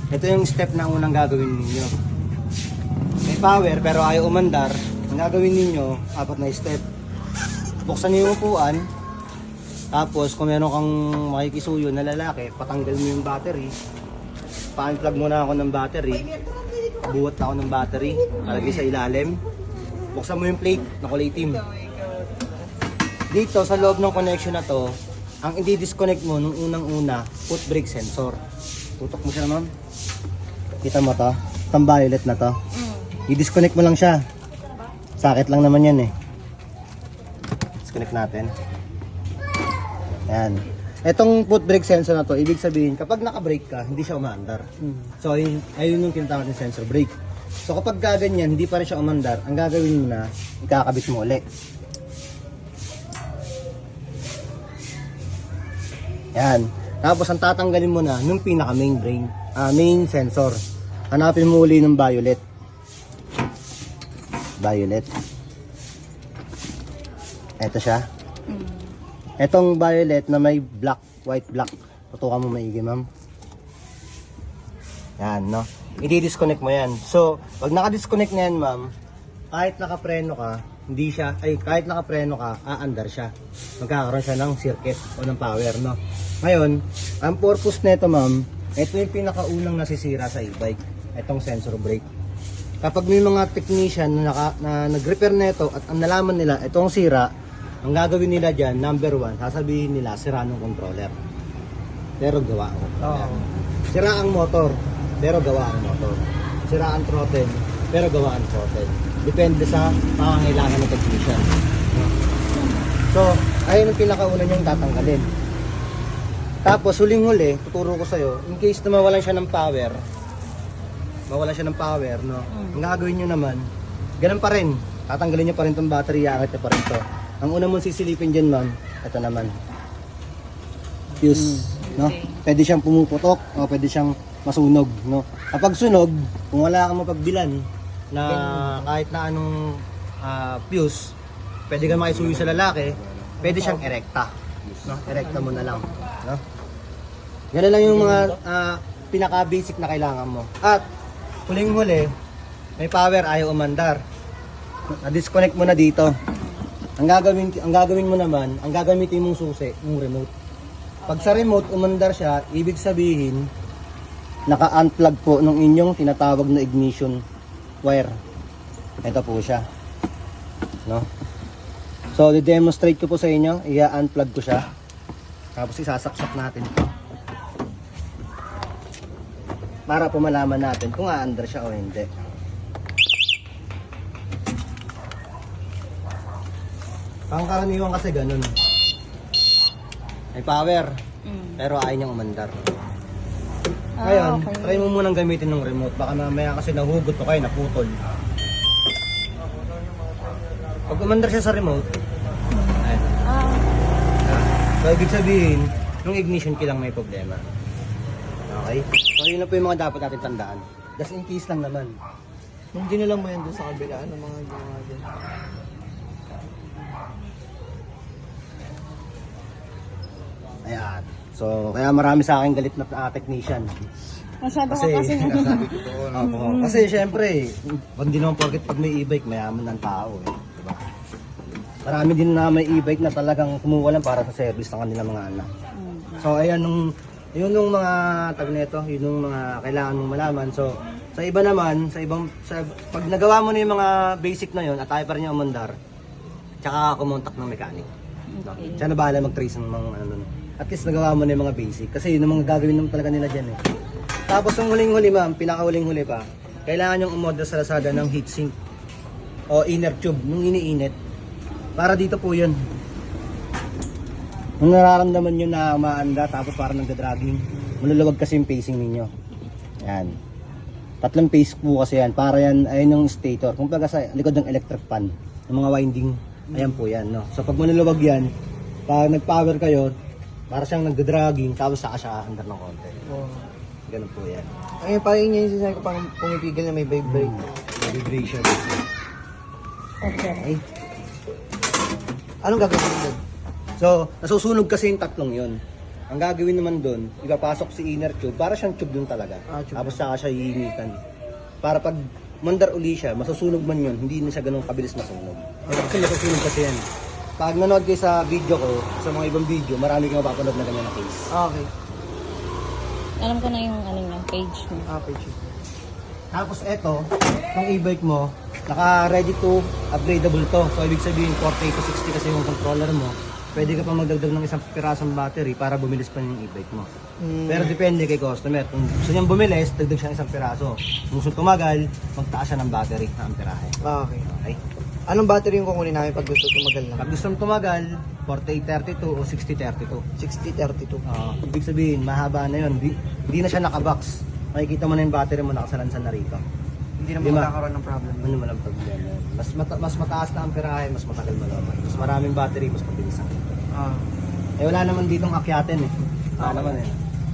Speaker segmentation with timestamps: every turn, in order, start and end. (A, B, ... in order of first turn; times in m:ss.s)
0:00.1-0:01.9 A
0:03.3-0:06.8 A
0:07.9-0:08.8 A
0:09.9-0:13.7 A
0:14.8-0:16.3 A
0:17.0-0:19.4 A
0:18.4-0:18.9 B
0:20.1-0:21.6 A
0:23.3-0:24.9 A
0:25.4-0:28.4 A
0:29.0-0:29.7 A
0:30.8-0:32.6 A
0:33.3-0:34.2 A
0:35.2-0:36.1 A
0:37.8-0:38.5 A
0:40.3-0:44.7 A
0:45.2-0:47.1 A
0:47.6-0:51.4 A
0:56.4-1:00.6 A
1:01.1-1:02.4 A
1:04.6-1:05.1 A
1:07.6-1:08.0 A
1:08.5-1:08.8 B
1:09.4-1:13.1 A
1:15.2-1:18.9 A
1:19.5-1:32.1 A
1:32.8-1:37.3 A
1:37.8-1:41.2 A
1:42.2-1:52.1 A
1:43.0-1:43.5 C
1:52.6-1:52.9 B
1:53.1-1:55.3 A
1:56.6-2:00.0 A
2:01.3-2:03.6 A
2:02.5-2:02.8 B
2:04.2-2:09.5 A
2:11.2-2:17.6 A
2:11.8-2:12.4 B
2:18.1-2:21.1 A
2:18.3-2:18.9 C
2:21.7-2:24.3 A
2:23.4-2:23.9 C
2:24.8-2:26.4 A
2:27.5-2:30.8 A
2:31.5-2:32.1 A
2:32.8-2:34.0 A
2:35.0-2:36.1 A
2:36.3-2:36.6 B
2:37.0-2:40.3 A
2:41.1-2:41.3 B
2:41.1-2:43.5 A
2:44.5-2:47.2 A
2:47.8-2:48.1 A
2:49.0-2:49.6 A
2:52.2-2:54.6 A
2:55.6-2:56.7 A
2:59.9-3:02.1 A
3:07.3-3:08.5 A
3:10.4-3:10.9 A
3:11.2-3:11.6 B
3:11.6-3:12.6 A
3:14.0-3:15.0 B
3:14.0-3:17.9 A
3:20.9-3:21.8 A
3:22.5-3:23.7 B
3:22.8-3:23.2 A
3:24.2-3:27.4 A
3:28.5-3:32.0 A
3:32.7-3:35.1 C
3:40.7-3:43.8 A
3:44.4-3:46.9 B
3:44.7-3:50.8 A
3:45.8-3:46.1 C
3:51.8-3:55.5 A
3:55.8-3:56.3 B
3:56.2-4:05.8 A
4:06.6-4:07.9 A
4:08.3-4:08.9 B
4:08.4-4:13.6 A
4:14.3-4:18.5 A
4:19.5-4:21.0 A
4:21.8-4:22.6 A
4:24.6-4:29.1 A
4:29.8-4:30.2 A
4:31.0-4:38.3 A
4:38.9-4:39.9 A
4:40.5-4:43.0 A
4:43.1-4:43.5 C
4:43.9-4:44.5 A
4:44.8-4:47.5 C
4:47.0-4:48.8 A
4:50.0-4:50.5 B
4:50.4-4:50.6 A
4:52.4-4:53.2 C
4:53.8-4:55.6 A
4:56.1-5:01.0 A
4:59.5-5:00.0 C
5:01.6-5:06.8 A
5:05.7-5:06.1 C
5:07.4-5:11.3 A
5:11.3-5:11.7 C
5:13.2-5:14.9 B
5:14.9-5:15.6 C
5:16.3-5:26.9 A
5:23.6-5:23.9 B
5:27.2-5:27.8 C
5:27.5-5:34.6 A
5:33.8-5:34.3 C
5:35.1-5:37.1 C
5:37.0-5:40.0 A
5:40.2-5:41.0 C
5:41.1-5:46.4 A
5:47.0-5:48.4 C
5:47.2-5:47.5 A
5:48.2-5:53.6 A
5:53.7-5:54.1 C
5:54.6-5:57.0 A
5:56.4-5:56.9 C